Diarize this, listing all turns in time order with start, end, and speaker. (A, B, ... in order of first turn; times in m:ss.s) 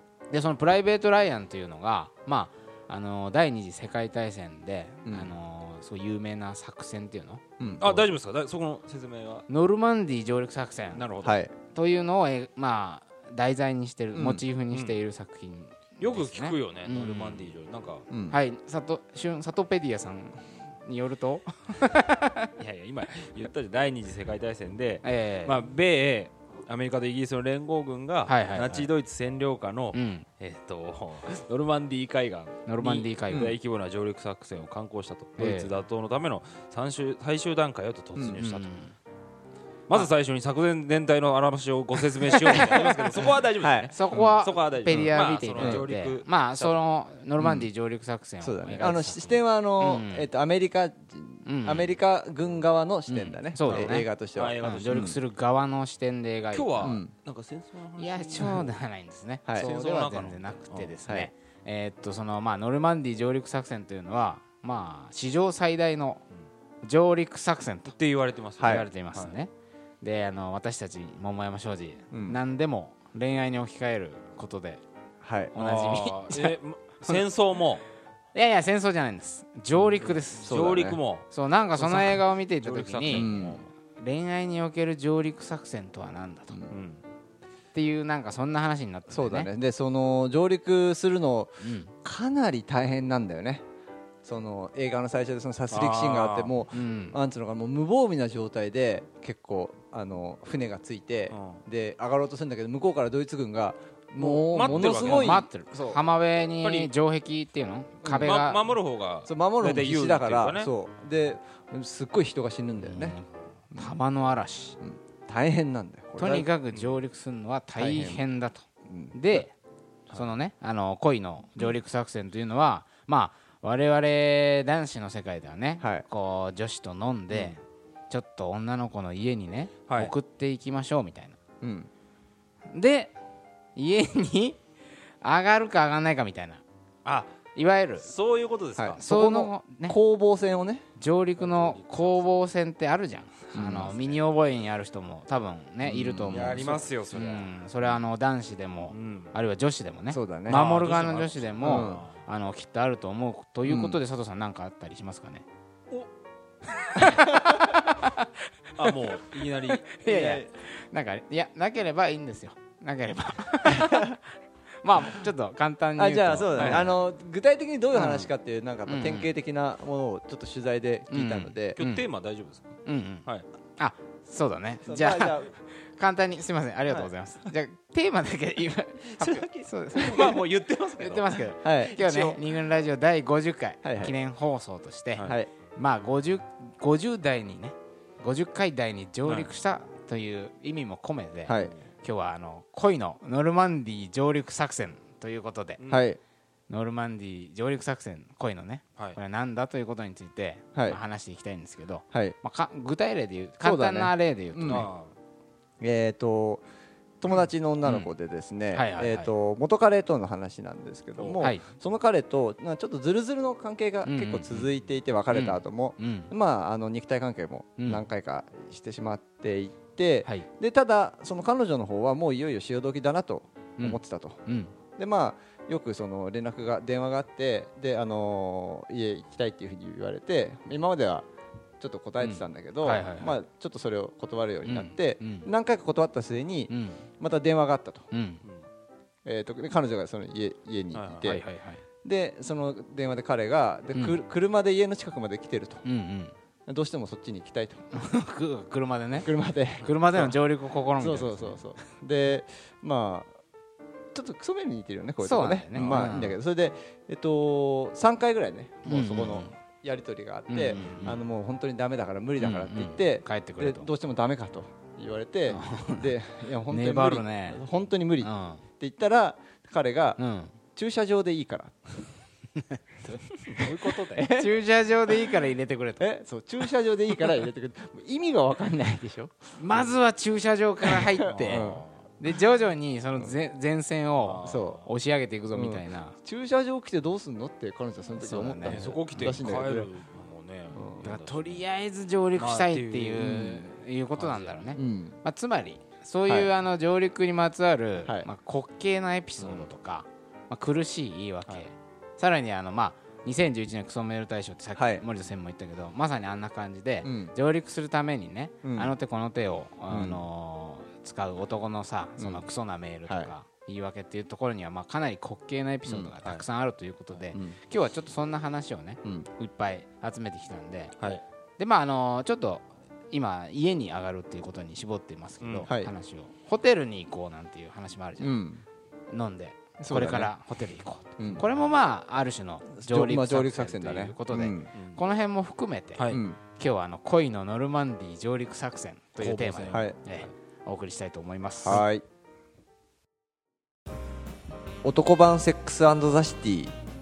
0:00.3-0:08.1 A
0:05.0-0:05.3 B
0:07.6-0:07.9 B
0:07.8-0:09.4 C
0:09.5-0:17.5 A
0:10.9-0:11.4 C
0:11.2-0:11.5 B
0:14.1-0:14.4 B
0:14.7-0:15.0 C
0:16.0-0:18.0 C
0:18.1-0:18.4 B
0:18.3-0:22.5 A
0:22.6-0:38.7 C
0:25.0-0:25.6 A
0:28.3-0:28.9 A
0:29.9-0:30.3 A
0:32.6-0:33.5 A
0:33.3-0:33.6 B
0:35.4-0:35.7 A
0:38.4-0:38.9 A
0:39.9-0:46.8 C
0:42.3-0:43.0 A
0:43.6-0:44.3 B
0:43.9-0:50.3 A
0:44.9-0:45.9 B
0:47.4-0:47.7 B
0:48.4-0:55.2 B
0:51.4-0:51.9 A
0:53.1-0:54.1 A
0:53.6-0:55.1 C
0:54.6-0:57.0 A
0:56.5-0:58.7 C
0:56.8-0:57.1 B
0:58.0-1:06.2 A
0:59.5-1:01.0 C
1:01.0-1:01.3 B
1:06.8-1:08.0 A
1:07.9-1:09.3 C
1:08.6-1:08.9 B
1:08.6-1:14.8 A
1:12.1-1:12.4 B
1:15.2-1:15.5 B
1:15.5-1:17.2 A
1:15.6-1:17.8 C
1:18.3-1:20.6 A
1:20.0-1:23.6 C
1:20.4-1:21.0 B
1:21.3-1:23.4 A
1:23.1-1:23.6 B
1:23.9-1:26.6 A
1:26.7-1:27.0 C
1:27.7-1:29.5 A
1:29.1-1:33.6 B
1:31.6-1:31.9 A
1:34.2-1:46.0 B
1:35.7-1:36.6 C
1:36.7-1:37.2 A
1:41.3-1:41.6 C
1:44.2-1:45.4 C
1:44.7-1:48.6 A
1:46.6-1:46.9 C
1:48.0-1:48.3 B
1:48.2-1:50.7 C
1:49.2-1:53.2 B
1:52.8-1:54.8 A
1:54.8-1:56.5 B
1:56.2-1:59.5 A
1:56.7-1:57.0 C
1:57.8-1:58.2 B
1:58.8-1:59.4 B
2:00.1-2:11.4 A
2:05.8-2:06.1 B
2:09.9-2:10.1 C
2:11.6-2:11.9 B
2:12.7-2:13.2 A
2:13.8-2:14.6 A
2:15.2-2:16.6 A
2:17.0-2:17.3 C
2:17.5-2:18.1 A
2:18.0-2:19.0 C
2:18.8-2:20.8 B
2:19.0-2:20.0 A
2:21.0-2:35.4 A
2:21.4-2:22.3 C
2:23.5-2:23.9 B
2:23.7-2:24.2 C
2:25.8-2:26.6 B
2:26.3-2:27.5 C
2:28.9-2:29.3 C
2:30.1-2:30.6 B
2:30.5-2:32.1 C
2:31.6-2:32.0 B
2:33.6-2:34.0 B
2:36.8-2:38.3 A
2:38.8-2:40.5 C
2:39.7-2:44.2 A
2:43.7-2:44.0 B
2:44.8-2:47.0 A
2:46.0-2:51.8 B
2:46.5-2:46.9 C
2:47.9-2:48.3 A
2:48.8-2:49.3 A
2:51.1-2:52.1 A
2:51.8-2:52.7 C
2:52.8-2:53.3 A
2:53.8-3:00.4 A
2:54.8-2:55.5 B
2:59.2-3:00.4 B
2:59.9-3:01.2 C
3:00.9-3:15.8 A
3:01.4-3:02.5 B
3:03.8-3:04.2 B
3:05.2-3:05.5 B
3:09.2-3:09.5 C
3:11.4-3:11.7 B
3:15.8-3:16.0 C
3:15.9-3:16.2 B
3:16.7-3:24.9 A
3:22.1-3:22.4 B
3:23.6-3:24.8 B
3:24.6-3:25.1 C
3:25.8-3:26.6 B
3:27.2-3:44.4 B
3:27.8-3:28.1 A
3:28.7-3:29.3 A
3:31.2-3:31.4 C
3:34.0-3:34.7 A
3:35.3-3:36.3 A
3:37.8-3:38.0 A
3:43.8-3:44.7 A
3:45.0-3:51.3 B
3:51.8-3:58.1 B
3:52.2-3:53.3 A
3:54.6-3:55.5 A
3:56.7-3:57.0 A
3:58.1-3:58.4 A
3:59.2-4:01.4 B
4:00.9-4:01.4 C
4:01.2-4:01.8 A
4:02.0-4:05.8 B
4:05.8-4:06.3 A
4:06.6-4:07.8 B
4:07.9-4:11.6 A
4:09.2-4:10.4 B
4:11.0-4:13.3 B
4:14.1-4:30.2 B
4:15.2-4:16.4 A
4:15.7-4:16.2 C
4:18.8-4:19.5 A
4:20.5-4:21.2 A
4:22.4-4:23.9 A
4:25.5-4:26.1 A
4:26.7-4:27.6 A
4:28.2-4:28.6 A
4:30.2-4:30.5 A
4:30.7-4:32.1 B
4:33.5-4:34.3 C
4:33.6-4:34.5 B
4:34.2-4:36.0 A
4:36.0-4:39.4 B
4:39.6-4:46.2 A
4:40.8-4:41.8 B
4:41.3-4:41.9 C
4:44.2-4:44.8 C
4:44.4-4:44.8 B
4:45.5-4:49.9 B
4:48.2-4:48.9 A
4:48.6-4:51.6 C
4:50.7-4:51.0 B
4:51.0-5:21.0 A
4:52.3-4:53.3 C
4:53.2-4:53.7 B
4:54.2-4:54.8 C
4:54.8-4:55.2 B
4:56.3-4:56.5 B
4:59.4-4:59.7 C
5:04.8-5:05.0 B
5:07.0-5:07.3 B
5:08.6-5:08.9 B
5:09.9-5:10.2 B
5:12.2-5:12.5 B
5:13.1-5:13.3 B
5:15.9-5:16.2 B
5:21.6-5:28.4 A
5:25.4-5:25.7 C
5:25.7-5:25.9 B
5:28.2-5:28.6 B
5:29.1-5:41.8 A
5:29.8-5:30.3 B
5:31.2-5:31.5 B
5:32.7-5:34.7 B
5:34.7-5:35.0 C
5:36.0-5:36.2 C
5:36.1-5:36.4 B
5:39.2-5:40.3 C
5:39.7-5:40.0 B
5:41.6-5:42.0 B
5:44.8-5:46.7 B